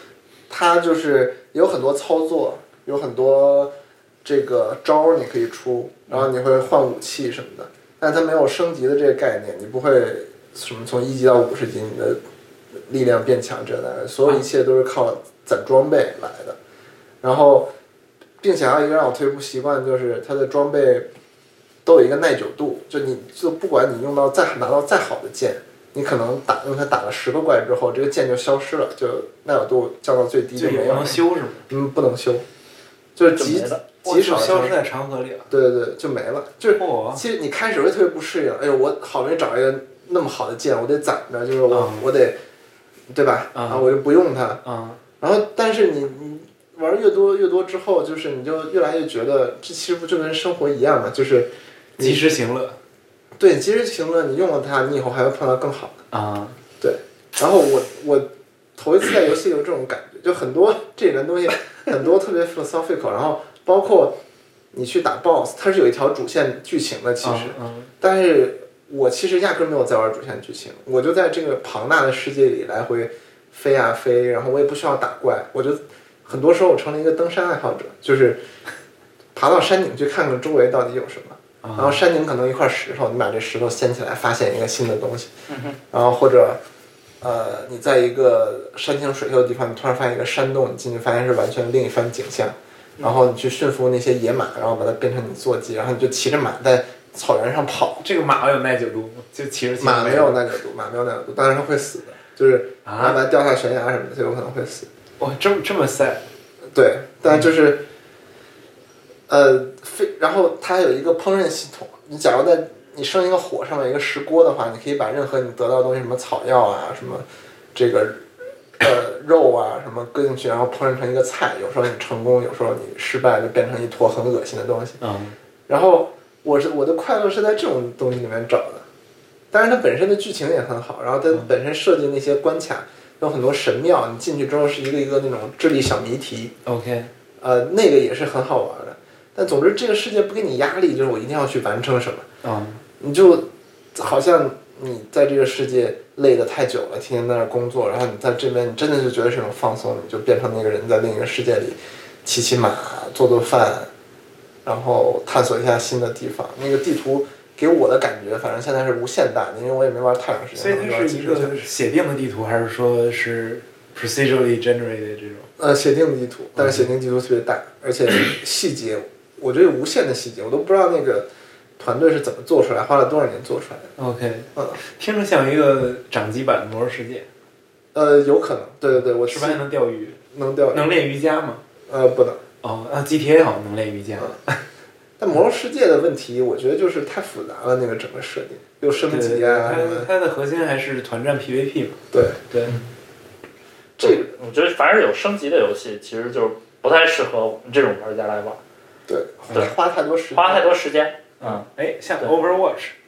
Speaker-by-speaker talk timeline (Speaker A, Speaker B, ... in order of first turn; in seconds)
Speaker A: 0.5-3.7, 4.2-12.2, 12.8-16.6, 17.2-17.7, 18.4-21.1, 21.9-32.5, 33.2-34.8, 35.5-42.4, 43.1-44.6, 45.2-52.2, 53.4-56.0, 56.8-64.2, 64.7-78.4, 79.3-85.3, 85.9-86.6, 87.2-98.0, 99.8-104.9, 106.7-107.8, 109.3-118.3, 118.8-125.0, 125.7-128.8, 129.5-136.5, 137.4-142.3, 143.0-153.9, 154.7-161.7, 165.6-171.3, 171.8-173.9, 177.9-179.6, 180.3-180.9, 181.9-182.4, 185.2-190.1, 192.1-192.4, 194.0-194.3, 199.1-200.7
Speaker B: 30.6-31.6, 34.0-35.5, 36.7-37.2, 41.7-42.1, 43.5-43.9, 44.6-45.0, 52.0-52.8, 56.1-56.6, 67.2-67.9, 81.6-82.0, 98.0-100.4, 102.8-103.2, 105.2-106.2, 125.0-125.3, 136.7-137.1, 142.4-142.8, 160.6-165.5, 166.6-166.9, 174.0-177.3, 179.2-180.2, 180.7-181.6, 182.6-184.6, 189.0-192.8, 201.4-202.9
Speaker C: 33.4-33.8, 85.5-85.8, 194.0-198.6, 200.3-201.7